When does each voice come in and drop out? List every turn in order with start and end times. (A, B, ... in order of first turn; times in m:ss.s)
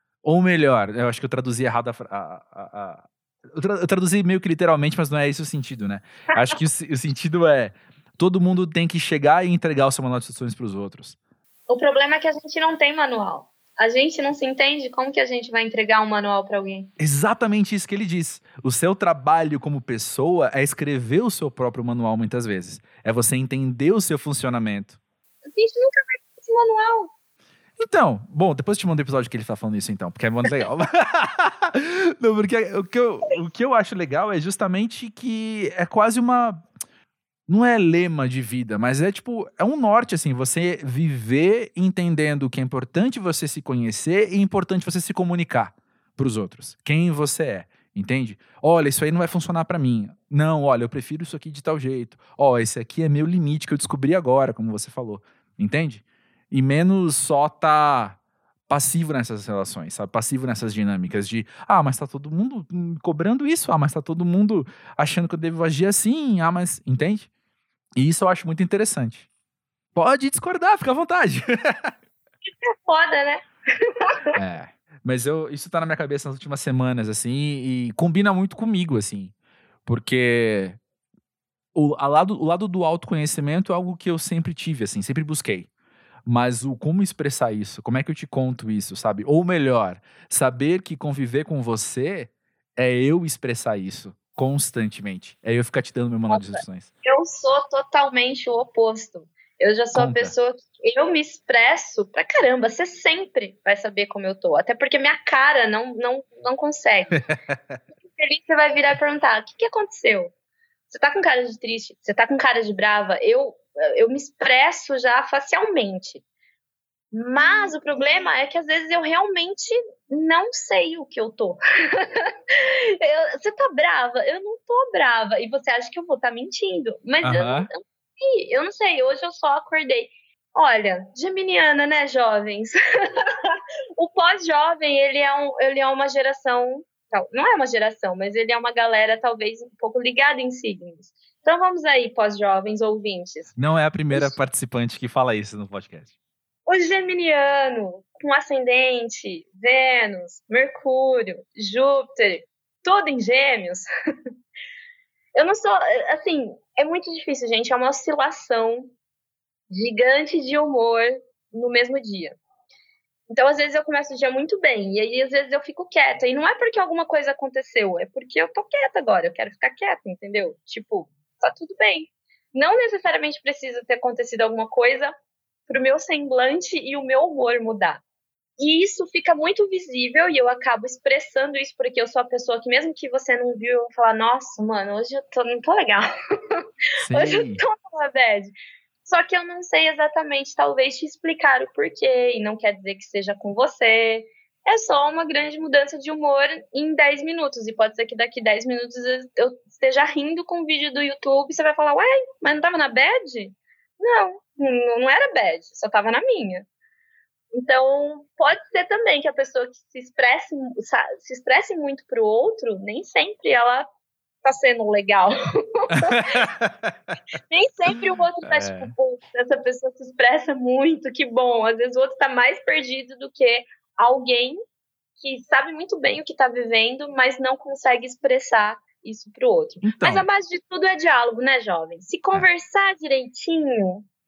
0:00.2-0:11.2 A
0:06.3-0:06.6 B
0:11.7-0:16.9 B
0:17.0-0:25.0 A
0:25.5-0:27.1 B
0:27.8-0:36.6 A
0:37.5-0:58.2 A
0:58.7-1:07.3 A
1:08.0-1:09.2 A
1:09.9-1:11.9 A
1:12.6-1:14.4 B
1:14.4-1:19.3 A
1:19.8-1:20.8 A
1:21.7-1:25.7 A
1:26.2-1:36.9 A
1:36.3-1:47.2 B
1:39.9-1:40.3 A
1:47.2-1:47.8 A
1:48.1-1:50.3 B
1:50.9-1:56.2 B
1:57.1-2:23.5 B
2:07.2-2:07.7 A
2:23.6-2:26.1 A
2:26.6-2:33.9 B
2:35.3-2:38.9 B
2:39.7-2:42.4 B
2:43.3-2:55.1 B
2:55.7-2:58.0 B
2:58.6-3:08.5 B
3:07.0-3:07.6 A
3:09.0-3:26.7 B
3:27.5-3:33.9 B
3:34.4-3:36.4 B
3:36.0-3:36.9 A
3:37.5-3:44.6 B
3:38.5-3:38.9 A
3:45.2-3:54.1 B
3:49.8-3:50.2 A